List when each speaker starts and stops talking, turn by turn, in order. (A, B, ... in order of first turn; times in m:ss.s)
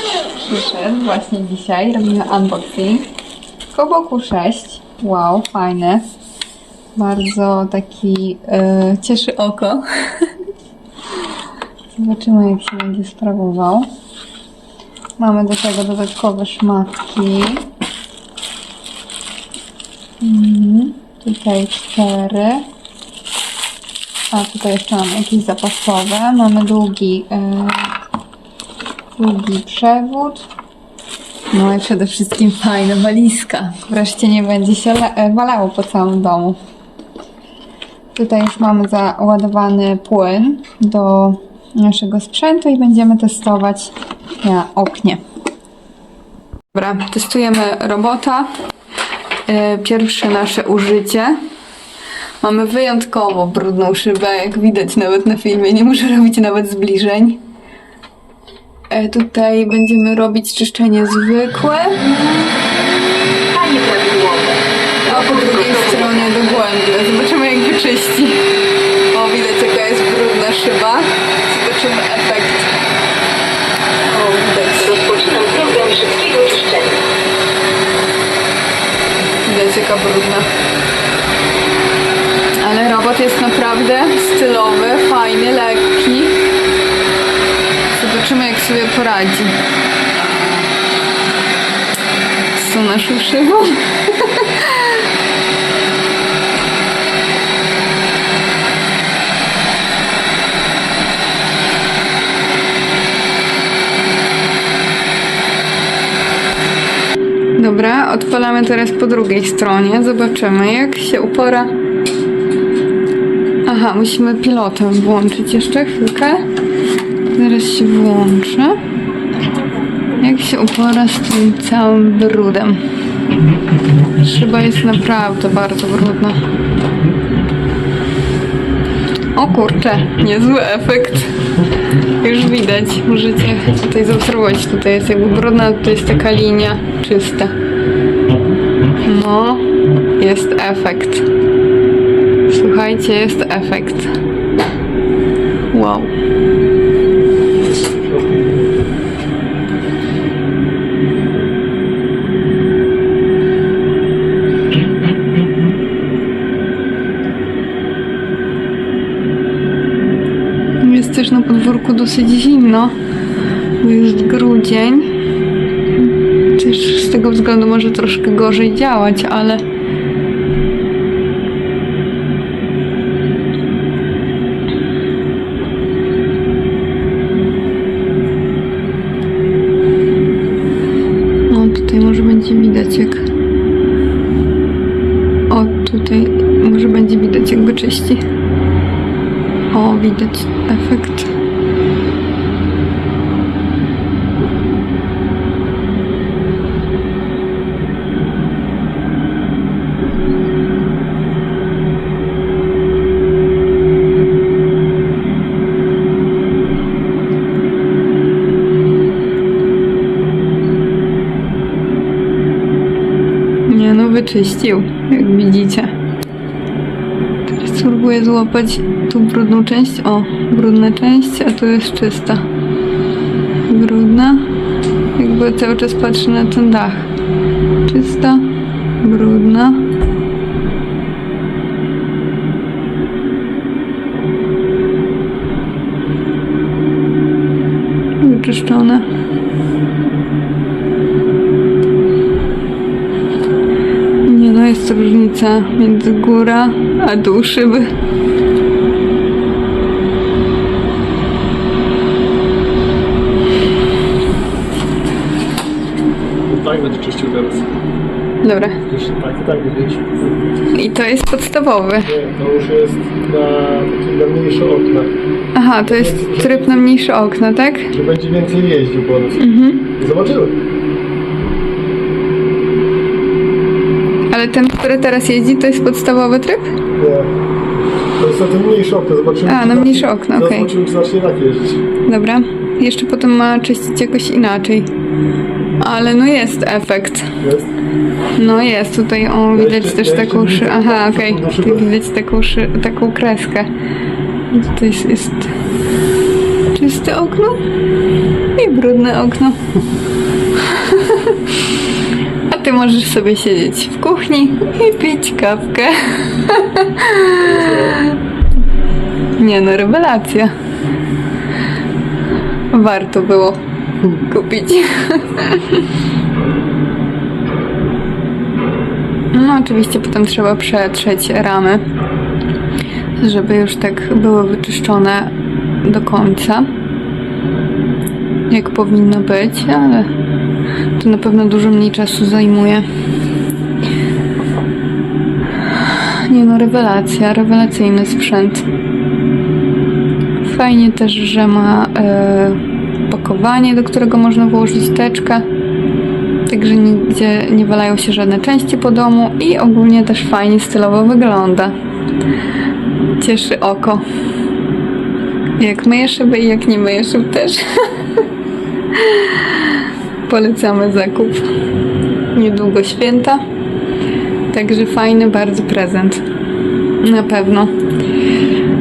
0:00.4-0:03.1 A
0:03.7-0:06.1 A
0:06.9-0:10.3 A
0:12.0-0:13.9 A
0:15.2-0:17.7 A
0:20.2-0:22.7 A
0:24.3-0:28.0 A
0:29.2-0:30.4 A
0:31.5-0:36.6 A
0:38.1-0:45.2 A
0:46.7-0:48.5 A
0:49.5-0:51.4 A
0:52.4-0:57.4 A
0:58.9-1:02.1 A
1:03.5-1:06.1 B
1:05.0-1:08.4 A
1:09.1-1:12.7 A
1:14.0-1:15.1 A
1:15.0-1:17.0 B
1:19.4-1:20.5 A
1:22.6-1:26.4 A
1:27.9-1:29.6 A
1:32.5-1:35.0 A
1:47.6-1:51.7 A
1:53.6-1:56.4 A
1:57.3-1:58.8 A
2:00.1-2:02.8 A
2:04.0-2:06.4 A
2:09.3-2:17.5 A
2:19.0-2:21.3 A
2:22.5-2:24.2 A
2:25.7-2:26.1 A
2:27.7-2:28.7 C
2:40.8-2:42.9 A
2:43.8-2:45.1 A
2:46.5-2:49.6 A
3:01.5-3:03.3 A
3:05.5-3:08.2 A
3:09.7-3:11.3 A
3:33.6-3:35.9 A
3:37.4-3:42.5 A
3:43.7-3:44.5 A
3:45.1-3:47.1 A
3:47.8-3:49.9 A
3:58.2-3:59.1 A
4:04.2-4:07.9 A
4:16.4-4:17.7 C
4:18.4-4:18.8 A
4:18.9-4:20.4 C
4:20.7-4:22.1 A
4:22.0-4:25.1 C
4:25.5-4:27.9 A
4:25.9-4:26.8 C
4:27.9-4:29.4 C
4:29.4-4:29.9 A
4:30.0-4:30.6 C
4:34.3-4:36.7 A
4:37.0-4:37.3 C
4:38.2-4:41.8 C
4:39.4-4:40.7 A
4:42.0-4:44.9 A
4:45.8-4:47.4 A
4:47.4-4:47.7 C
4:48.4-4:53.7 A
4:49.5-4:51.9 C
4:54.5-4:55.5 A
4:56.7-4:57.6 A
4:58.5-4:59.6 A
5:00.5-5:01.5 A
5:02.5-5:08.2 A
5:07.4-5:08.0 C
5:09.4-5:10.5 A
5:12.7-5:15.9 A
5:19.3-5:21.8 A
5:23.2-5:26.7 A
5:28.5-5:30.1 A
5:31.0-5:32.8 A
5:35.7-5:38.6 A
5:40.4-5:45.4 A
5:46.4-5:51.7 A
5:53.2-5:54.0 A
5:55.6-5:58.2 A
5:58.9-6:01.5 A
6:02.3-6:03.4 A
6:04.5-6:06.2 A
6:07.0-6:07.7 A